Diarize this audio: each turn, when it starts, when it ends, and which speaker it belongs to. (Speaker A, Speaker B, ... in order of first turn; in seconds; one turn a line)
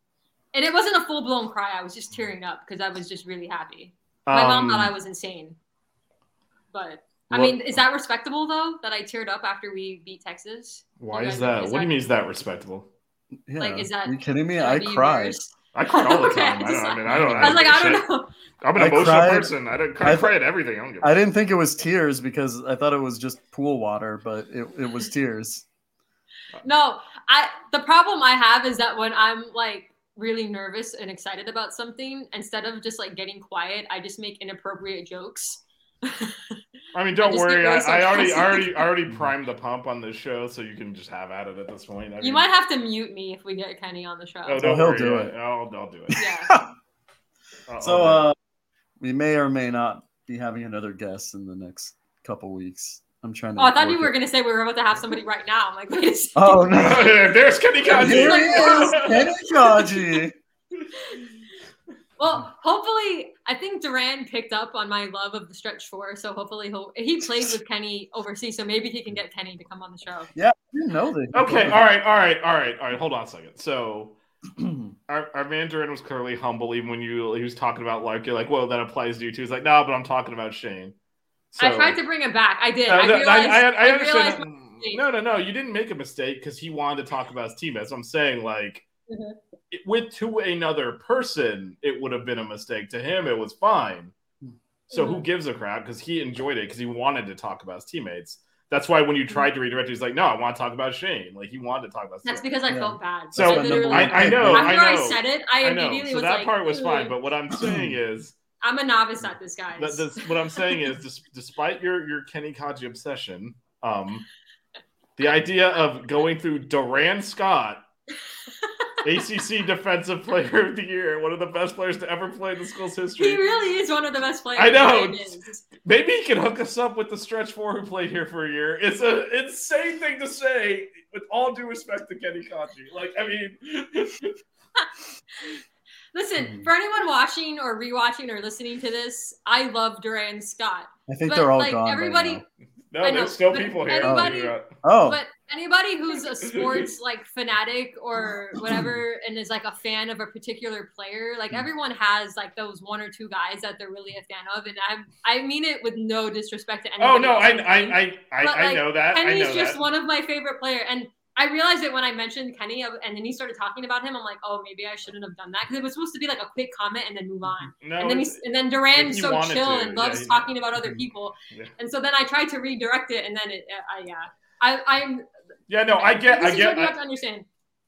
Speaker A: 0.5-5.6
Speaker B: 4.3-4.9
Speaker A: 6.7-11.9
Speaker B: 7.3-7.6
Speaker B: 11.0-12.9
Speaker C: 13.5-15.4
Speaker A: 13.6-18.3
Speaker B: 15.7-18.1
Speaker C: 17.1-17.7
Speaker B: 18.6-21.2
Speaker C: 18.8-20.3
Speaker C: 21.0-25.6
Speaker A: 26.6-36.6
Speaker B: 36.9-42.5
Speaker A: 37.2-38.9
Speaker A: 42.2-44.7
Speaker B: 44.5-46.2
Speaker C: 44.6-45.3
Speaker A: 46.2-46.5
Speaker C: 46.2-46.7
Speaker B: 47.7-48.3
Speaker C: 47.8-48.4
Speaker C: 49.0-54.1
Speaker A: 53.6-56.9
Speaker C: 56.4-57.1
Speaker B: 56.7-59.3
Speaker A: 57.9-59.2
Speaker C: 57.9-60.4
Speaker A: 62.2-70.3
Speaker C: 70.3-71.8
Speaker B: 71.3-74.2
Speaker C: 74.6-74.9
Speaker B: 75.1-81.0
Speaker B: 81.5-82.0
Speaker A: 81.6-85.0
Speaker B: 82.9-88.8
Speaker A: 89.1-89.4
Speaker B: 89.7-94.1
Speaker B: 94.9-102.5
Speaker A: 94.9-95.2
Speaker A: 102.2-107.1
Speaker C: 102.7-104.8
Speaker B: 103.3-108.4
Speaker C: 107.6-108.0
Speaker A: 108.6-110.8
Speaker B: 109.8-114.3
Speaker B: 115.2-117.8
Speaker B: 119.0-123.5
Speaker A: 123.2-125.6
Speaker B: 124.6-134.4
Speaker A: 136.1-142.4
Speaker C: 136.4-136.7
Speaker C: 141.1-142.4
Speaker B: 142.9-144.7
Speaker A: 143.0-175.3
Speaker C: 144.0-145.2
Speaker B: 146.4-146.8
Speaker B: 157.0-159.8
Speaker B: 167.8-170.5
Speaker B: 175.7-177.0
Speaker A: 176.2-177.5